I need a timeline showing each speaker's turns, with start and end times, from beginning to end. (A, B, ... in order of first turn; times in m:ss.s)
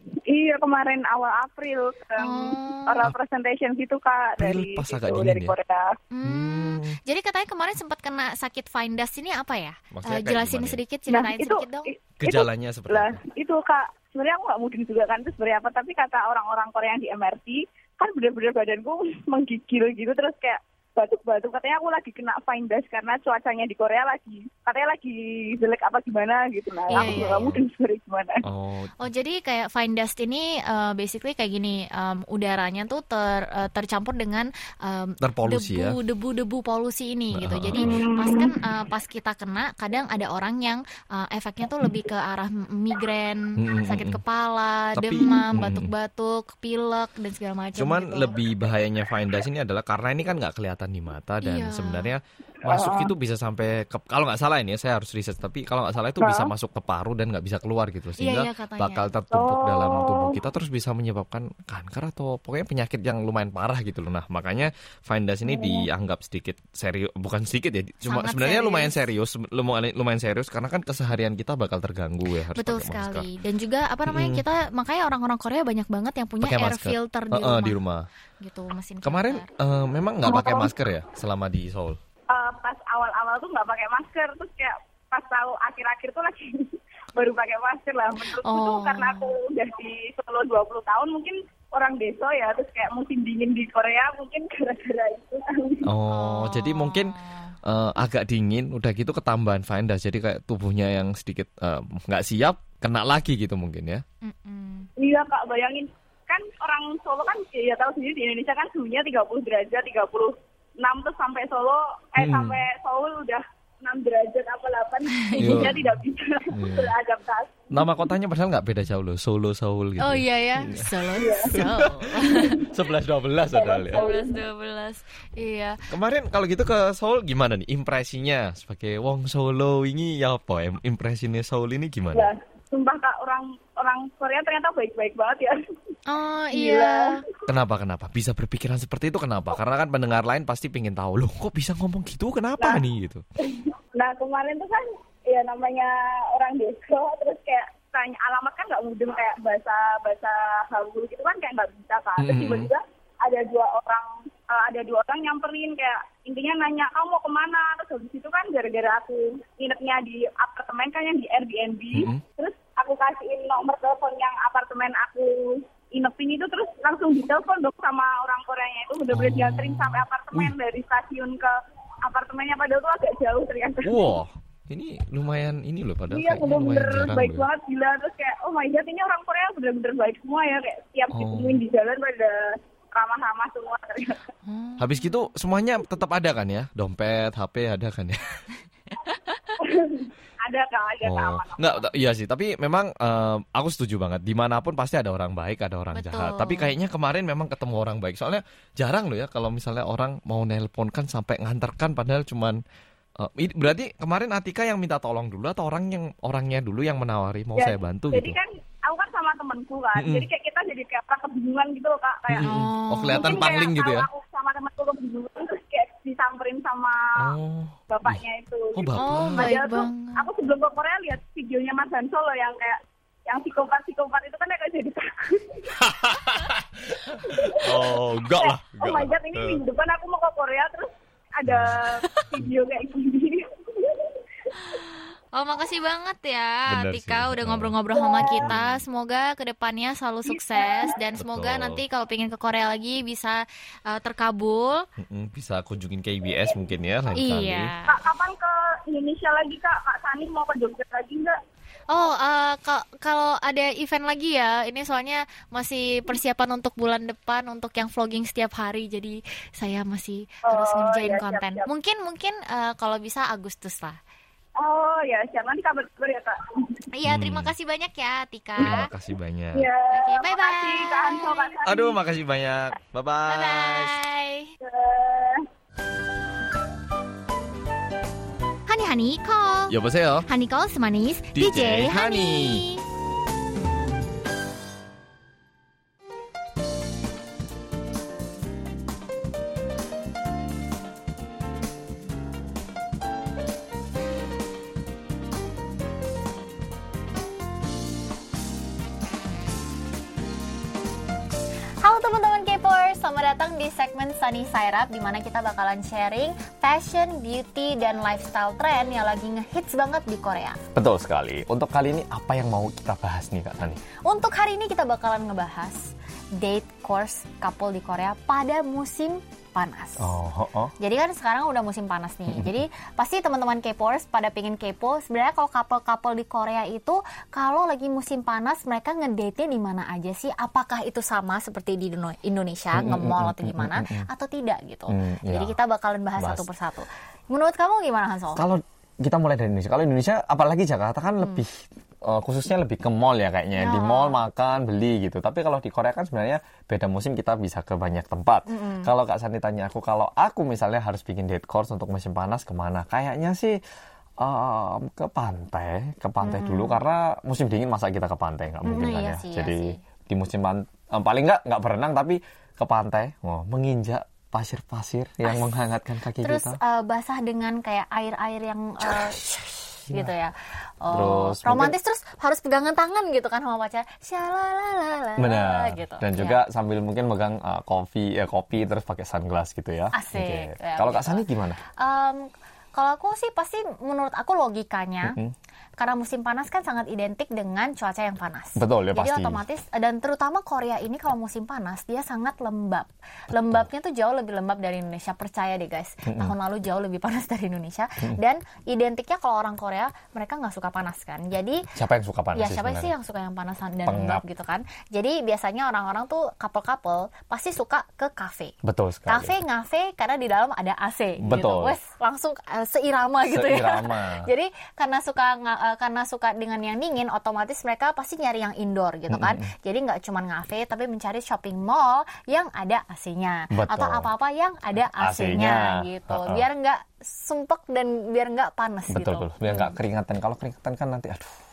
0:00.3-0:06.0 A
0:02.2-0:03.1 B
0:04.4-0:05.6 C
0:06.1-0:11.9 B
0:06.2-0:07.0 C
0:09.9-0:10.8 C
0:11.1-0:28.4 A
0:12.2-0:13.2 C
0:26.9-0:27.5 B
0:27.0-0:27.6 C
0:28.4-0:29.0 C
0:29.0-0:48.3 B
0:35.2-0:36.0 C
0:37.3-0:38.0 C
0:37.8-0:38.5 A
0:43.6-0:44.2 C
0:45.0-0:45.9 C
0:47.8-1:13.3 C
0:51.4-0:52.1 B
0:52.7-0:53.1 A
0:56.2-0:56.5 A
0:58.2-0:59.1 B
0:59.3-1:00.4 A
1:05.5-1:05.9 A
1:08.0-1:09.0 B
1:12.6-1:17.8 B
1:14.1-1:14.4 C
1:16.4-1:18.1 C
1:18.4-1:19.5 B
1:19.0-1:22.0 C
1:20.2-1:20.7 A
1:22.3-1:35.9 A
1:28.2-1:29.4 B
1:35.8-1:44.0 C
1:36.1-1:37.6 B
1:44.2-1:44.9 B
1:45.0-1:58.0 A
1:52.2-1:52.6 C
1:55.2-1:55.7 B
1:55.4-1:57.0 C
1:57.7-2:04.1 C
2:00.0-2:02.7 B
2:01.2-2:01.6 A
2:02.3-2:02.7 A
2:03.5-2:04.4 A
2:03.9-2:05.8 B
2:05.9-2:12.3 C
2:12.1-2:15.6 A
2:16.1-2:17.2 B
2:16.5-2:17.2 A
2:17.5-2:23.2 C
2:22.6-2:22.8 A
2:23.4-2:54.2 A
2:32.2-2:32.7 C
2:41.9-2:42.2 C
2:49.1-2:50.6 C
2:53.8-2:57.5 C
2:56.1-3:04.2 A
3:01.1-3:01.6 C
3:04.5-3:05.1 B
3:04.8-3:08.5 C
3:09.6-3:11.9 A
3:11.0-3:22.6 C
3:15.9-3:16.7 B
3:23.2-3:28.4 C
3:27.6-3:32.5 A
3:30.0-3:30.3 C
3:32.3-3:34.1 C
3:32.4-3:33.4 B
3:33.1-3:37.3 A
3:37.2-3:38.2 C
3:37.9-3:45.8 A
3:38.8-3:39.6 C
3:39.0-3:40.3 B
3:45.7-3:49.6 C
3:47.3-3:54.6 A
3:51.5-3:52.0 C
3:54.6-4:04.8 B
3:56.7-3:57.8 C
3:57.9-3:58.5 A
3:58.4-3:58.8 C
4:00.3-4:01.0 A
4:01.2-4:01.8 C
4:05.0-4:07.7 C
4:07.2-4:08.0 B
4:07.9-4:11.4 A
4:11.9-4:24.0 B
4:20.5-4:21.7 A
4:24.6-4:26.8 A
4:26.9-4:28.9 B
4:27.1-4:27.5 C
4:28.6-4:29.7 C
4:29.5-4:32.0 A
4:29.9-4:31.6 B
4:31.6-4:34.0 C
4:33.3-4:34.5 B
4:34.6-4:35.5 A
4:38.7-4:39.8 B
4:39.7-4:40.3 C
4:40.3-4:42.8 B
4:41.4-4:42.6 C
5:01.8-5:10.6 B
5:10.8-5:13.8 C
5:14.0-5:20.2 B
5:20.0-5:20.7 C
5:20.8-5:38.4 B
5:22.3-5:22.6 C
5:32.7-5:34.1 C
5:34.9-5:35.6 C
5:36.2-5:36.5 C
5:38.4-5:53.6 C
5:43.6-5:44.2 B
5:48.5-5:48.9 B
5:54.2-6:06.6 C
5:56.2-5:56.8 B
5:58.6-5:59.8 B
6:05.2-6:05.5 B
6:06.2-6:09.3 B
6:08.9-6:09.4 C
6:09.9-6:10.1 C
6:09.9-6:16.4 B
6:10.9-6:11.8 C
6:15.2-6:21.6 C
6:19.9-6:25.2 B
6:25.0-6:25.3 C
6:25.8-6:41.7 B
6:28.6-6:29.4 C
6:33.3-6:33.7 C
6:36.1-6:36.3 C
6:41.7-6:42.9 C
6:42.3-6:48.6 B
6:43.9-6:44.2 C
6:48.6-6:49.4 C
6:49.1-7:09.8 B
6:51.2-6:51.8 C
6:53.3-6:54.3 C
6:59.1-6:59.5 C
7:03.5-7:04.1 C
7:04.9-7:06.5 C
7:08.9-7:11.4 C